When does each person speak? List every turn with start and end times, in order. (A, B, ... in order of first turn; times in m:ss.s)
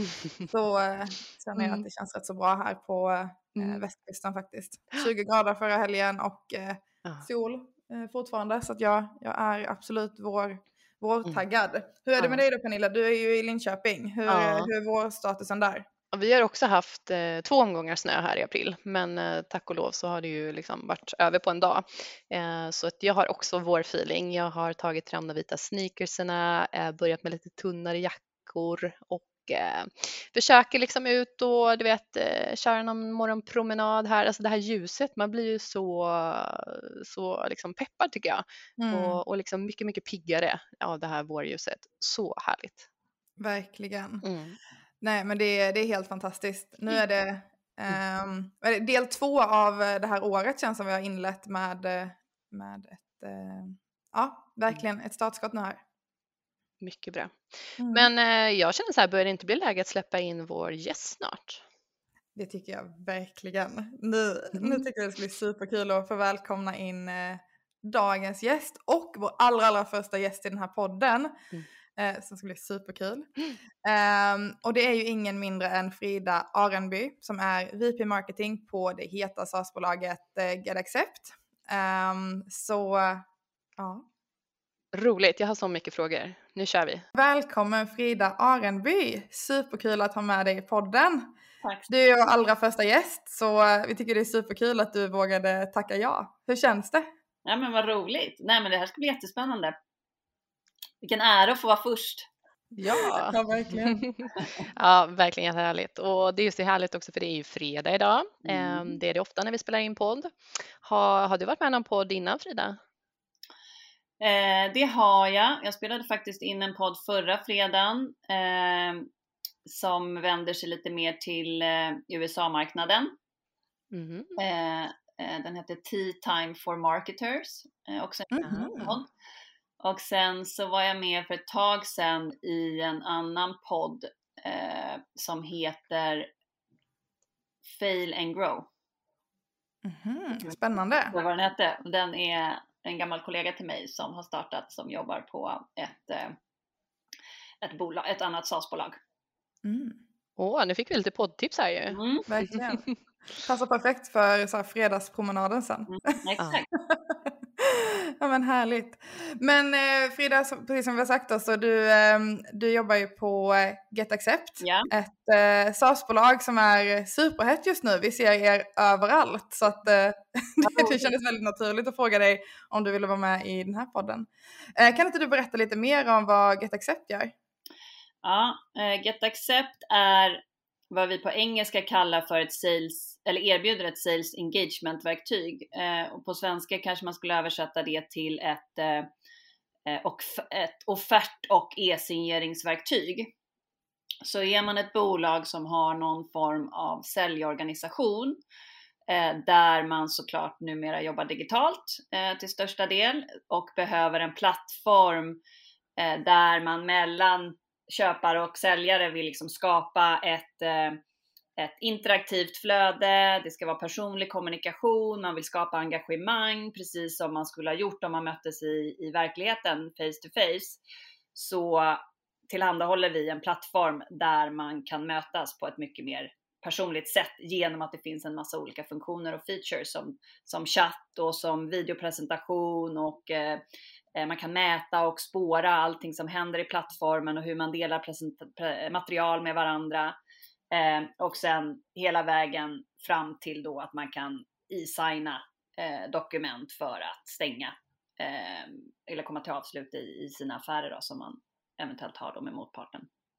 0:00.2-0:00.5 A
0:00.4-0:15.9 B
0:01.6-0:01.8 A
0:03.6-0:03.8 A
0:12.2-0:12.4 A
0:14.3-0:14.7 A
0:16.1-0:42.9 A
0:38.8-0:39.2 B
0:43.4-0:44.2 B
0:44.2-0:44.6 A
0:45.0-0:55.8 B
0:56.8-1:01.6 A
0:57.8-0:58.1 B
1:02.4-1:11.4 B
1:04.5-1:04.9 A
1:12.0-1:23.2 B
1:23.8-1:24.0 B
1:24.9-1:27.0 A
1:27.1-1:31.3 B
1:31.6-1:31.9 C
1:31.9-1:37.0 B
1:37.4-1:39.7 C
1:41.0-1:42.3 C
1:42.8-1:52.8 A
1:42.8-1:44.1 B
1:48.5-1:48.8 C
1:54.2-1:59.1 C
1:59.6-2:03.1 C
2:03.9-2:04.3 A
2:04.4-2:09.1 C
2:08.3-2:09.0 B
2:08.4-2:08.8 A
2:09.8-2:16.3 C
2:17.7-2:18.7 C
2:19.8-2:21.1 B
2:21.1-2:26.4 C
2:27.6-2:29.0 C
2:29.6-2:30.0 B
2:30.4-2:33.0 A
2:31.9-2:32.2 C
2:32.3-2:32.8 B
2:33.4-2:36.1 B
2:35.9-2:36.7 C
2:36.7-2:57.3 B
2:44.6-2:44.9 C
2:50.6-2:51.0 C
2:58.2-3:09.1 C
3:09.9-3:13.3 C
3:14.2-3:18.4 C
3:19.1-3:25.4 C
3:26.0-3:31.0 C
3:31.6-3:40.8 C
3:41.3-3:53.6 C
3:54.2-4:00.2 C
4:00.7-4:13.1 C